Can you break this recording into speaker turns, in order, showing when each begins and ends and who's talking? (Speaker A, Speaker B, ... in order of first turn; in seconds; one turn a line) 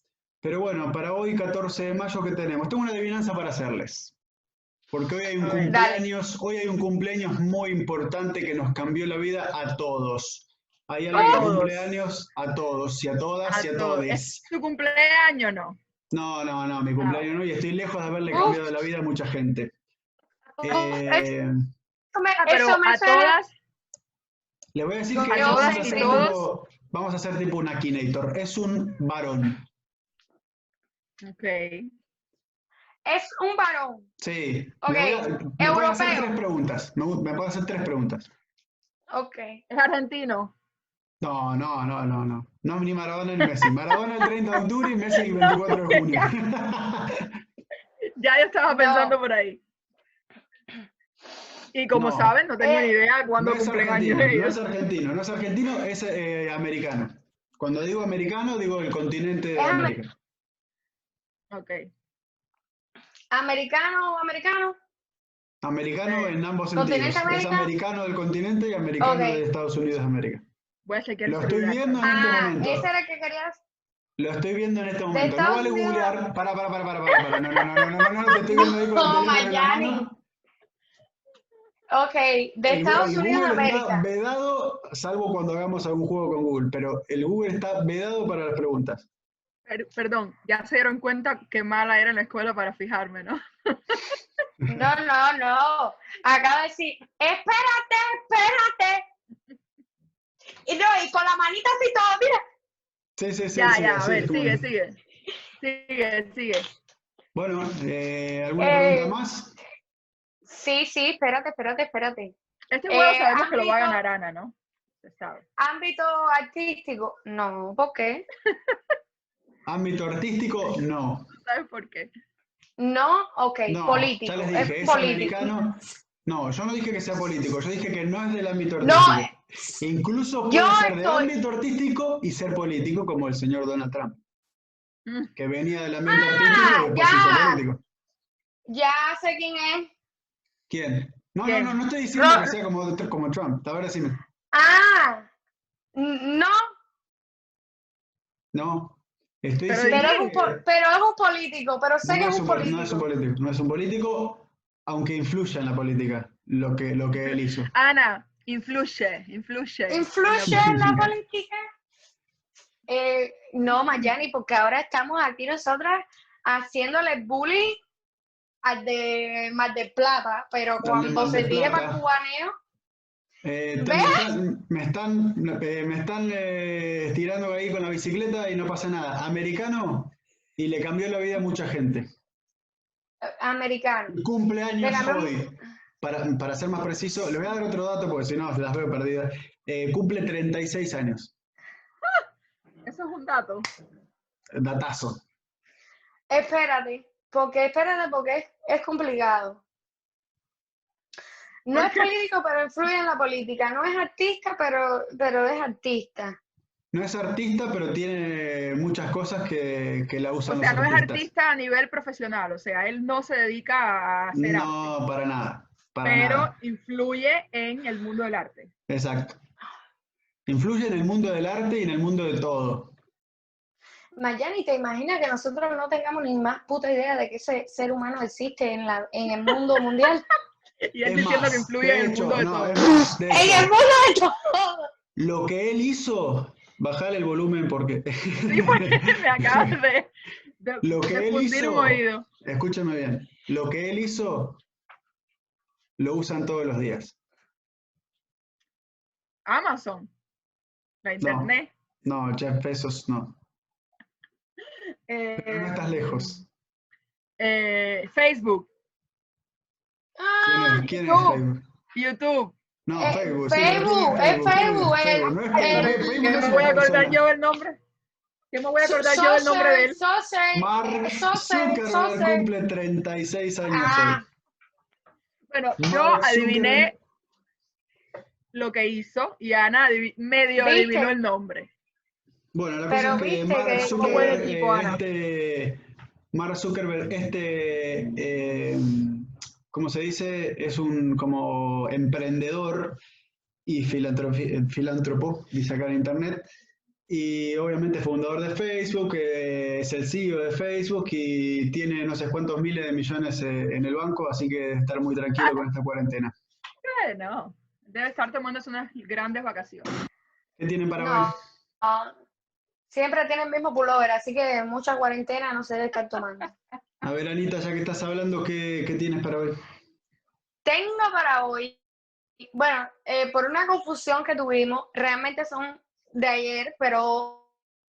Speaker A: 0.4-4.2
Speaker A: 4.9-14.4
Speaker B: 5.4-5.8
Speaker C: 5.7-6.0
Speaker B: 11.1-12.0
Speaker C: 11.2-11.5
Speaker B: 13.5-15.8
Speaker A: 16.1-19.7
Speaker B: 17.0-17.3
Speaker C: 18.3-18.6
Speaker C: 20.6-21.3
Speaker A: 20.6-21.5
Speaker C: 22.1-23.4
Speaker B: 22.5-23.5
Speaker A: 24.7-29.6
Speaker C: 25.2-26.4
Speaker B: 25.3-26.4
Speaker B: 31.2-31.9
Speaker C: 33.1-34.1
Speaker A: 34.2-38.3
Speaker C: 34.8-36.3
Speaker C: 39.1-39.6
Speaker B: 39.7-40.5
Speaker A: 41.2-47.4
Speaker B: 45.1-46.3
Speaker B: 48.2-49.6
Speaker C: 48.7-49.2
Speaker B: 51.7-54.6
Speaker A: 51.9-52.4
Speaker C: 52.6-52.9
Speaker A: 53.4-60.1
Speaker C: 59.6-60.0
Speaker B: 61.5-61.9
Speaker C: 63.3-64.8
Speaker A: 65.6-70.4
Speaker B: 66.1-66.3
Speaker C: 66.8-67.7
Speaker C: 69.0-69.4
Speaker B: 70.9-72.2
Speaker A: 71.3-72.9
Speaker C: 72.0-73.6
Speaker A: 74.2-80.2
Speaker C: 75.1-76.2
Speaker C: 77.5-80.1
Speaker C: 81.9-84.0
Speaker A: 82.7-89.1
Speaker B: 89.7-94.1
Speaker C: 94.7-99.1
Speaker C: 100.7-102.4
Speaker A: 103.2-104.7
Speaker B: 103.5-105.0
Speaker B: 105.6-106.7
Speaker A: 107.3-109.6
Speaker C: 108.6-109.2
Speaker C: 110.5-112.3
Speaker B: 112.7-115.5
Speaker C: 112.9-114.0
Speaker C: 115.6-118.2
Speaker A: 119.7-121.3
Speaker B: 121.4-122.1
Speaker C: 122.8-125.5
Speaker A: 123.7-134.2
Speaker C: 128.8-129.7
Speaker C: 130.5-131.3
Speaker B: 135.1-135.3
Speaker A: 135.4-137.8
Speaker C: 136.1-137.6
Speaker C: 138.7-139.9
Speaker A: 140.7-144.2
Speaker B: 141.5-141.8
Speaker C: 142.2-142.5
Speaker C: 144.5-145.3
Speaker C: 145.9-146.7
Speaker A: 148.5-150.6
Speaker B: 149.7-150.3
Speaker C: 149.9-153.1
Speaker A: 152.0-157.7
Speaker B: 157.7-160.8
Speaker C: 159.9-161.6
Speaker A: 160.4-161.1
Speaker C: 162.9-167.8
Speaker C: 168.6-172.6
Speaker A: 170.8-172.0
Speaker A: 173.4-182.1
Speaker C: 173.8-174.3
Speaker C: 183.2-184.2
Speaker A: 184.1-191.3
Speaker C: 184.8-185.6
Speaker B: 192.9-193.7
Speaker A: 194.6-195.2
Speaker C: 196.3-199.6
Speaker C: 201.7-206.4
Speaker B: 201.7-202.1
Speaker A: 206.9-211.3
Speaker B: 210.5-214.9
Speaker A: 214.3-216.5
Speaker B: 216.1-218.7
Speaker A: 218.9-219.4
Speaker A: 220.5-222.9
Speaker C: 224.2-230.2
Speaker B: 230.9-232.8
Speaker A: 231.0-233.7
Speaker C: 233.3-234.9
Speaker A: 235.2-239.8
Speaker B: 238.5-240.1
Speaker B: 240.6-242.3
Speaker A: 240.8-244.6
Speaker A: 246.0-247.2
Speaker B: 249.5-250.1
Speaker B: 251.0-251.7
Speaker A: 251.2-251.5
Speaker A: 252.0-253.4
Speaker B: 255.1-256.4
Speaker A: 255.4-256.4
Speaker B: 257.4-258.7
Speaker C: 260.2-260.9
Speaker A: 260.4-261.6
Speaker B: 261.0-261.4
Speaker B: 261.9-262.6
Speaker A: 262.9-267.2
Speaker C: 263.0-266.9
Speaker B: 265.5-267.8
Speaker B: 268.5-270.0
Speaker C: 268.8-272.5
Speaker A: 270.5-274.2
Speaker C: 273.7-274.3
Speaker B: 275.5-277.0
Speaker A: 275.8-276.9
Speaker B: 278.5-281.7
Speaker C: 280.6-281.1
Speaker A: 282.5-293.0
Speaker C: 282.9-284.4
Speaker B: 283.9-285.0
Speaker A: 293.7-296.5
Speaker A: 297.1-306.3
Speaker B: 306.8-309.9
Speaker A: 310.6-311.4
Speaker C: 311.0-312.1
Speaker C: 312.9-316.5
Speaker A: 317.0-319.6
Speaker C: 320.6-321.8
Speaker C: 322.5-327.5